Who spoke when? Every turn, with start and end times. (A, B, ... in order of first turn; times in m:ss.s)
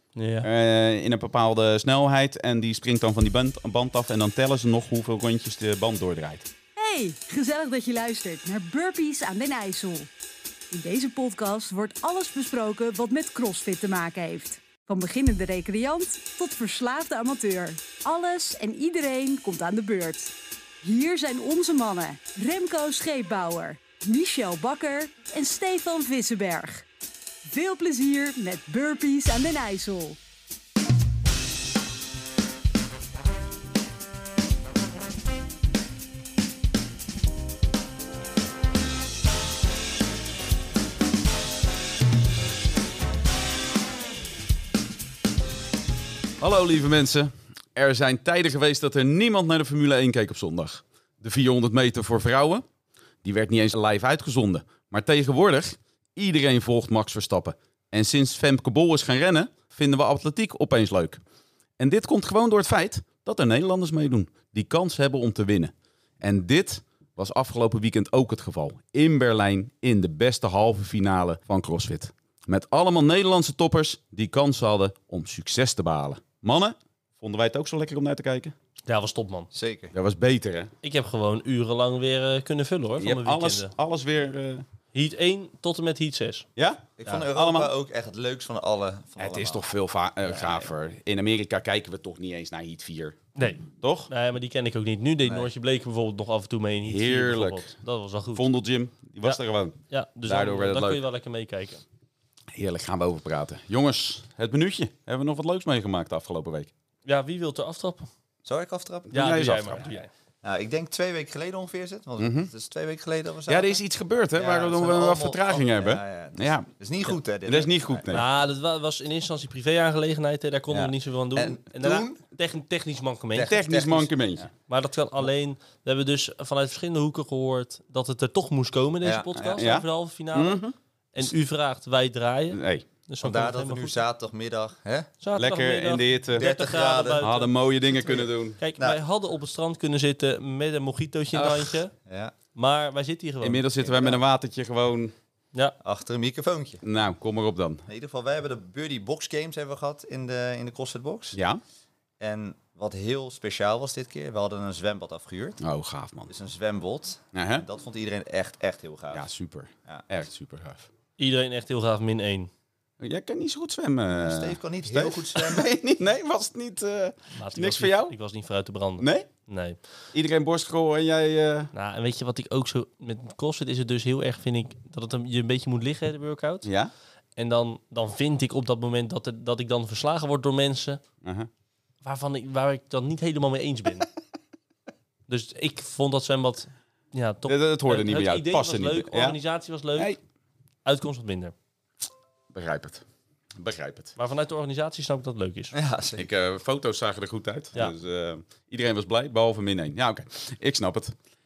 0:00.2-0:00.5 A
0:00.4-0:06.5 B
0:06.8-0:10.1 C
0:10.7-0:26.9 C
0:27.4-0:30.2 C
0:46.4-0:52.6 B
0:53.2-1:01.2 B
1:01.8-1:18.6 B
1:18.9-1:19.5 A
1:19.5-1:19.9 D
1:19.9-1:20.7 B
1:20.8-1:23.7 A
1:23.0-1:24.6 B
1:24.9-1:26.5 A
1:26.6-1:27.7 B
1:27.0-1:29.6 D
1:29.2-1:33.2 B
1:30.3-1:30.6 A
1:33.4-1:38.5 A
1:33.8-1:34.1 B
1:35.2-1:35.5 D
1:36.8-1:37.6 B
1:38.3-1:41.0 B
1:39.2-1:41.8 A
1:42.5-1:46.7 B
1:47.1-1:48.1 A
1:48.4-1:49.1 D
1:49.1-1:50.0 B
1:49.1-1:50.1 A
1:50.4-1:53.8 D
1:52.2-1:52.5 B
1:53.5-1:56.7 B
1:54.4-1:58.2 D
1:57.4-1:58.2 B
1:58.1-2:03.5 A
2:00.7-2:02.2 D
2:03.4-2:04.4 D
2:03.4-2:04.5 B
2:04.7-2:10.6 A
2:09.0-2:09.6 D
2:09.4-2:10.8 B
2:11.1-2:14.0 A
2:12.5-2:12.9 B
2:13.2-2:15.1 D
2:15.2-2:17.5 A
2:15.4-2:16.5 B
2:16.3-2:17.3 D
2:17.2-2:18.6 B
2:17.9-2:19.0 D
2:18.6-2:21.9 A
2:21.3-2:21.8 B
2:22.1-2:22.3 D
2:22.6-2:23.6 A
2:23.4-2:25.1 B
2:23.8-2:24.2 D
2:25.8-2:26.8 D
2:26.8-2:27.8 B
2:27.9-2:31.4 D
2:31.3-2:31.6 B
2:32.2-2:35.6 D
2:35.6-2:36.3 B
2:36.3-2:39.3 D
2:37.3-2:37.6 B
2:39.1-2:40.9 B
2:41.2-2:42.5 A
2:43.0-2:48.2 B
2:44.1-2:45.7 D
2:47.4-2:49.8 A
2:49.0-2:49.3 B
2:50.1-2:51.7 B
2:51.7-2:56.7 A
2:56.6-2:56.9 B
2:57.4-3:01.0 A
3:01.2-3:01.5 B
3:02.0-3:04.1 A
3:05.3-3:10.2 A
3:07.5-3:09.4 B
3:10.8-3:11.5 A
3:12.5-3:13.0 B
3:13.6-3:14.1 B
3:14.2-3:15.7 A
3:15.7-3:16.3 D
3:16.2-3:21.2 B